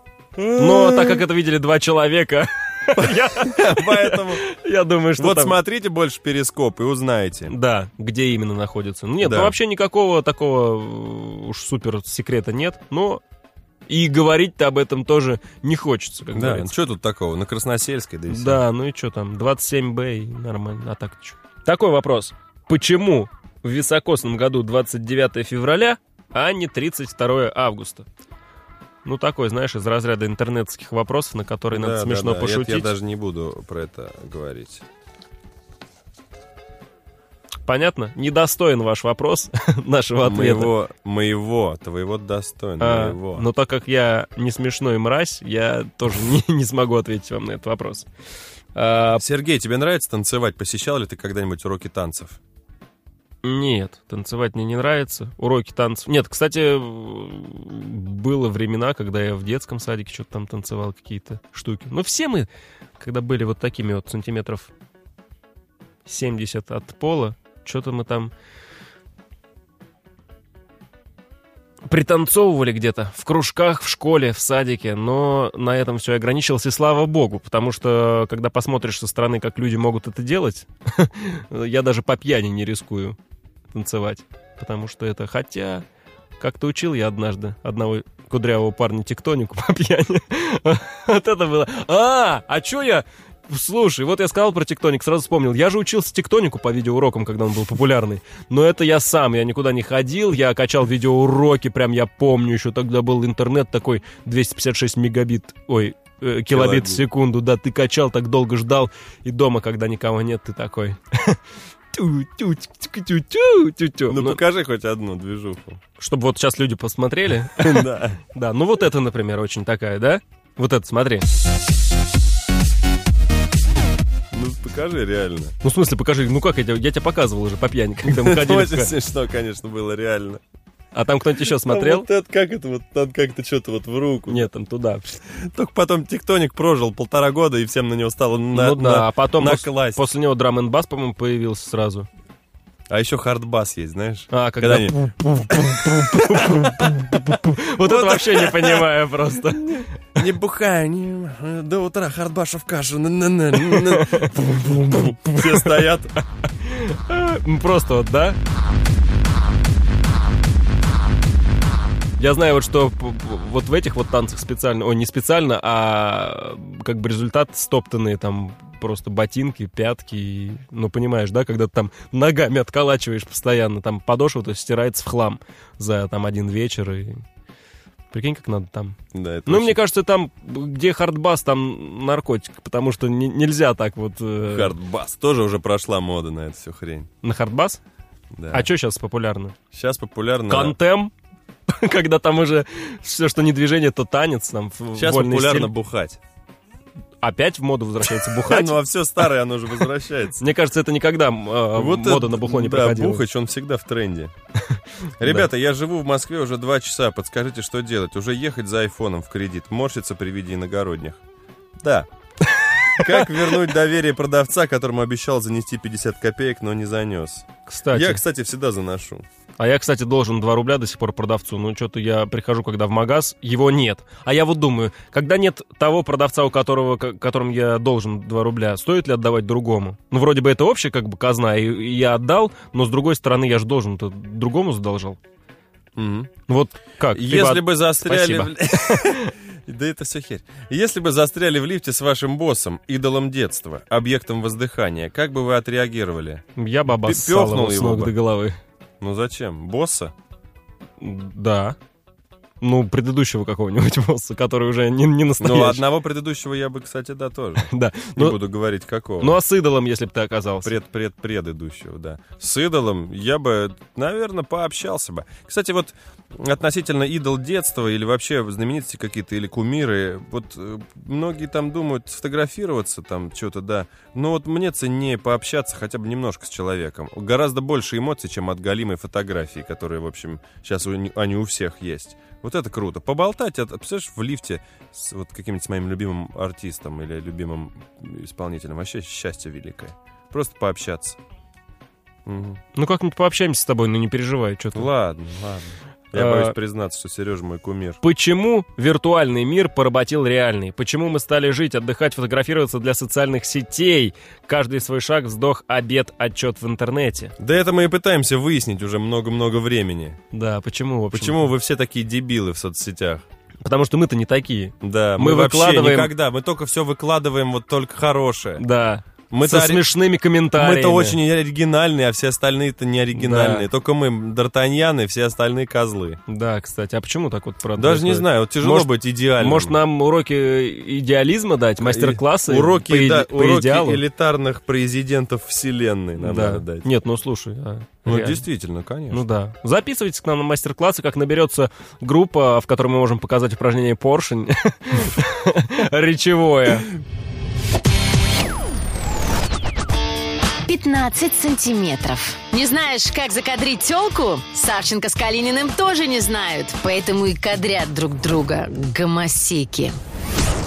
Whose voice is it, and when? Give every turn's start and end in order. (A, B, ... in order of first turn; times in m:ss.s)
0:00.4-0:01.2 A
0:00.6-0:05.6 B
0:02.9-0:04.4 A
0:05.2-0:07.5 A
0:07.5-0:13.2 B
0:09.2-0:09.6 A
0:13.9-0:16.7 B
0:16.3-0:18.6 A
0:18.3-0:28.1 B
0:29.0-0:32.9 B
0:31.7-0:34.8 A
0:37.6-0:40.7 B
0:40.2-0:43.4 A
0:42.8-0:48.1 B
0:48.7-0:49.2 B
0:49.2-0:52.4 A
0:53.4-1:04.7 B
1:06.0-1:08.3 B
1:11.9-1:23.2 B
1:23.7-1:25.8 B
1:26.4-1:51.4 B
1:46.5-1:47.0 A
1:51.9-1:54.4 B
1:54.1-1:55.8 A
1:56.0-2:01.3 B
1:57.6-1:58.2 A
2:04.3-2:05.5 A
2:05.6-2:08.9 B
2:08.0-2:10.4 A
2:10.9-2:12.1 B
2:11.6-2:14.5 A
2:14.3-2:15.2 B
2:15.3-2:20.0 A
2:18.5-2:22.1 B
2:22.9-2:24.9 A
2:24.3-2:29.9 B
2:25.7-2:36.1 A
2:33.5-2:35.9 B
2:36.5-2:38.4 B
2:42.2-2:57.2 B
2:58.1-3:04.7 B
2:59.1-2:59.8 A
3:04.4-3:07.1 A
3:07.2-3:07.8 B
3:08.4-3:08.7 A
3:08.5-3:09.5 B
3:09.7-3:10.8 A
3:10.5-3:11.1 B
3:11.7-3:15.7 B
3:14.9-3:16.2 A
3:17.2-3:18.8 B
3:18.1-3:20.4 A
3:20.4-3:23.2 B
3:21.7-3:24.3 A
3:24.7-3:25.4 B
3:25.2-3:31.2 A
3:31.8-3:32.1 A
3:32.7-3:33.1 B
3:32.9-3:39.2 A
3:37.6-3:38.2 B
3:39.6-3:55.2 B
3:56.0-3:56.3 A
3:56.5-3:59.3 B
3:57.0-4:08.1 A
4:06.6-4:08.6 B
4:09.0-4:10.1 A
4:11.0-4:11.8 B
4:12.6-4:15.8 B
4:15.4-4:19.4 A
4:17.6-4:18.4 B
4:19.2-4:20.8 B
4:20.6-4:51.2 A
4:52.2-4:52.6 A
4:52.7-4:54.9 B
4:54.7-4:58.0 A
4:56.1-4:56.6 B
4:58.0-5:07.3 B
5:07.4-5:10.2 A
5:10.3-5:11.5 B
5:11.1-5:13.2 A
5:13.6-5:16.1 B
5:14.8-5:18.6 A
5:18.6-5:21.2 B
5:19.3-5:19.9 A
5:20.5-5:26.2 A
5:23.1-5:23.7 B
5:26.3-5:34.0 B
5:27.8-5:29.8 A
5:31.8-5:36.9 A
5:36.2-5:38.4 B
5:38.0-5:39.2 A
5:39.1-5:46.9 B
5:50.7-6:00.0 C